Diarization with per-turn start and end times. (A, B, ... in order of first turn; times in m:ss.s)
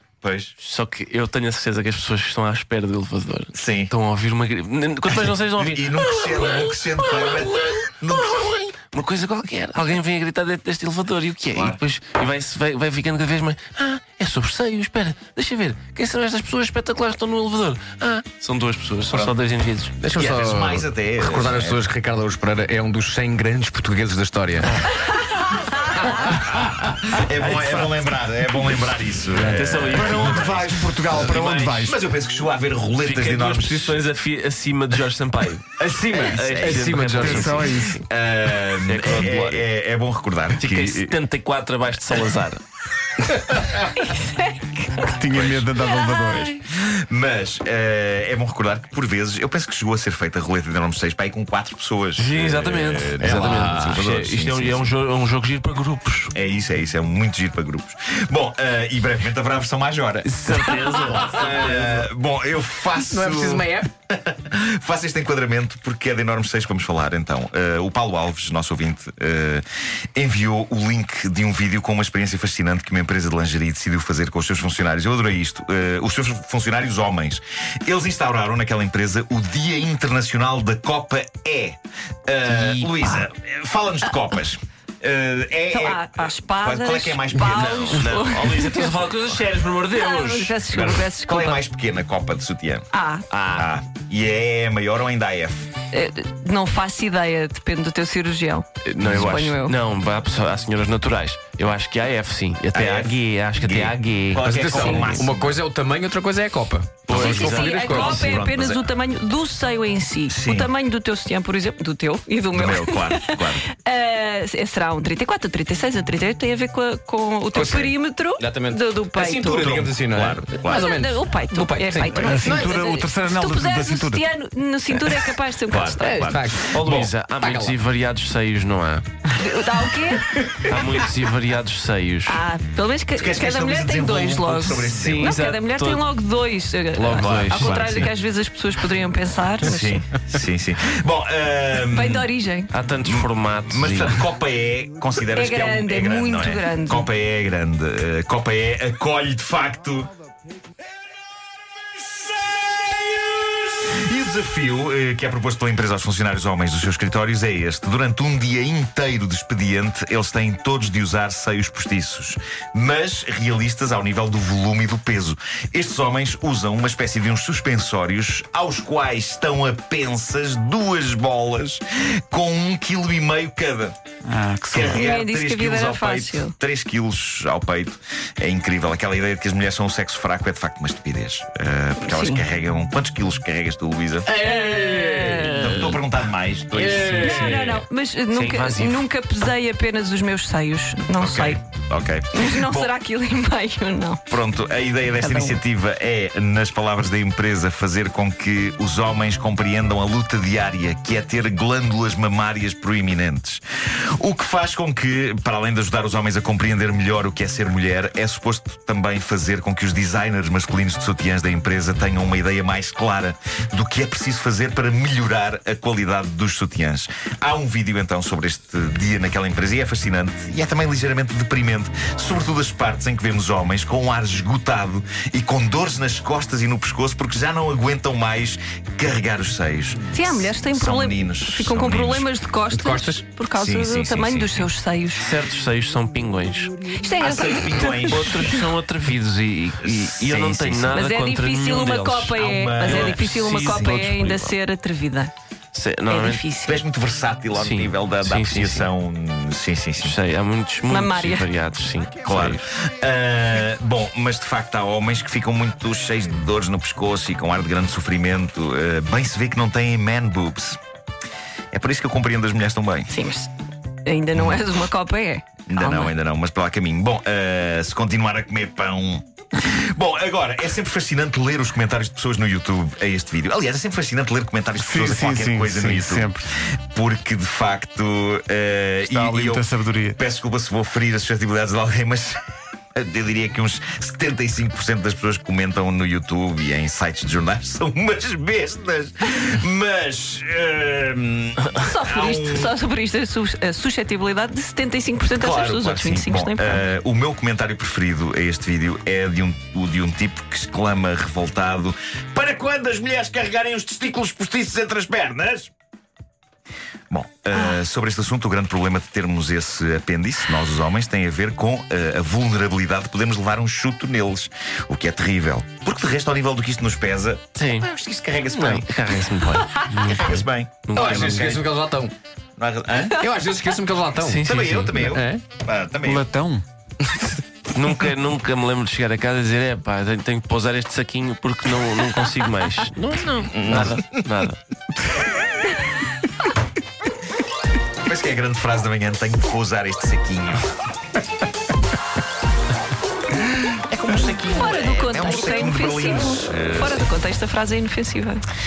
0:00.2-0:00.5 A
0:00.6-0:20.0 B
0:03.5-0:03.9 A
0:05.1-0:08.5 A
0:11.5-0:11.8 A
0:20.0-0:24.8 C
0:20.1-0:21.8 A
0:26.2-0:30.6 A
0:27.4-0:28.1 B
0:29.4-0:31.8 B
0:29.9-0:32.0 D
0:31.1-0:34.0 A
0:33.0-0:38.0 B
0:35.8-0:41.1 A
0:36.6-0:38.0 D
0:38.8-0:39.6 B
0:40.6-0:42.6 B
0:44.1-0:45.1 E
0:45.0-0:46.6 D
0:45.3-0:45.6 A
0:45.8-0:46.5 E
0:46.6-0:54.9 A
0:52.2-0:56.3 B
0:53.2-0:54.0 C
0:56.3-1:09.6 A
1:00.2-1:02.0 B
1:00.7-1:01.5 C
1:03.1-1:03.9 C
1:10.2-1:28.6 A
1:22.4-1:23.2 B
1:25.7-1:29.1 E
1:27.6-1:30.6 B
1:29.9-1:31.6 E
1:30.7-1:35.7 A
1:32.9-1:33.3 E
1:33.3-1:33.6 B
1:35.9-1:39.8 E
1:38.8-1:45.3 B
1:39.0-1:39.4 A
1:42.7-1:45.6 A
1:44.4-1:48.2 C
1:44.7-1:45.0 E
1:47.1-1:48.9 A
1:47.1-1:48.4 B
1:47.1-1:59.8 E
1:50.3-1:50.7 A
1:52.5-1:53.6 A
1:57.5-2:02.7 C
1:59.5-2:01.0 A
2:00.7-2:06.4 E
2:02.2-2:04.2 D
2:05.7-2:07.1 A
2:06.0-2:06.7 C
2:06.7-2:09.0 B
2:07.4-2:07.8 C
2:09.3-2:10.8 E
2:10.6-2:12.4 B
2:12.2-2:20.0 E
2:13.2-2:15.4 A
2:14.9-2:16.0 B
2:17.0-2:18.1 B
2:17.1-2:18.1 A
2:19.6-2:22.3 A
2:21.9-2:22.7 E
2:22.7-2:24.2 B
2:23.0-2:30.1 A
2:25.3-2:27.1 E
2:33.9-2:54.0 A
2:54.2-2:55.0 D
2:54.7-3:04.3 A
2:54.9-2:56.5 E
3:02.0-3:02.4 E
3:04.2-3:06.0 C
3:04.4-3:05.6 E
3:05.6-3:07.4 A
3:06.7-3:07.8 C
3:06.8-3:07.3 B
3:07.0-3:11.6 E
3:08.3-3:09.1 B
3:11.2-3:12.9 A
3:12.3-3:14.2 E
3:14.3-3:23.6 A
3:15.2-3:15.6 E
3:24.2-3:52.3 A
3:50.1-3:55.3 E
3:52.7-3:53.2 C
3:53.5-3:54.6 A
3:55.2-3:56.8 B
3:56.9-3:58.6 E
3:57.2-3:58.5 A
3:58.1-4:04.5 B
3:59.8-4:01.0 A
4:00.9-4:05.3 E
4:02.3-4:04.0 A
4:05.7-4:06.4 B
4:06.1-4:06.8 E
4:06.6-4:10.2 A
4:07.5-4:08.9 B
4:10.0-4:12.6 B
4:10.9-4:11.5 E
4:12.2-4:20.8 A
4:21.7-4:23.1 A
4:23.1-4:23.5 E
4:24.0-4:26.1 E
4:24.3-4:24.6 A
4:25.7-4:42.4 A
4:34.8-4:36.5 D
4:39.0-4:40.2 D
4:43.0-4:52.7 A
4:51.8-4:56.8 E
4:55.3-5:05.7 A
5:07.1-5:18.9 A
5:17.6-5:17.9 B
5:18.5-5:20.2 B
5:19.9-5:20.3 D
5:19.9-5:21.7 A
5:20.8-5:21.6 B
5:20.9-5:22.1 C
5:22.6-5:23.2 A
5:23.1-5:24.4 C
5:24.2-5:25.0 B
5:24.4-5:26.3 A
5:25.0-5:25.4 C
5:26.0-5:26.6 D
5:27.7-5:34.6 B
5:33.7-5:34.0 A
5:38.0-5:40.7 A
5:43.7-5:47.1 A
5:44.2-5:48.4 E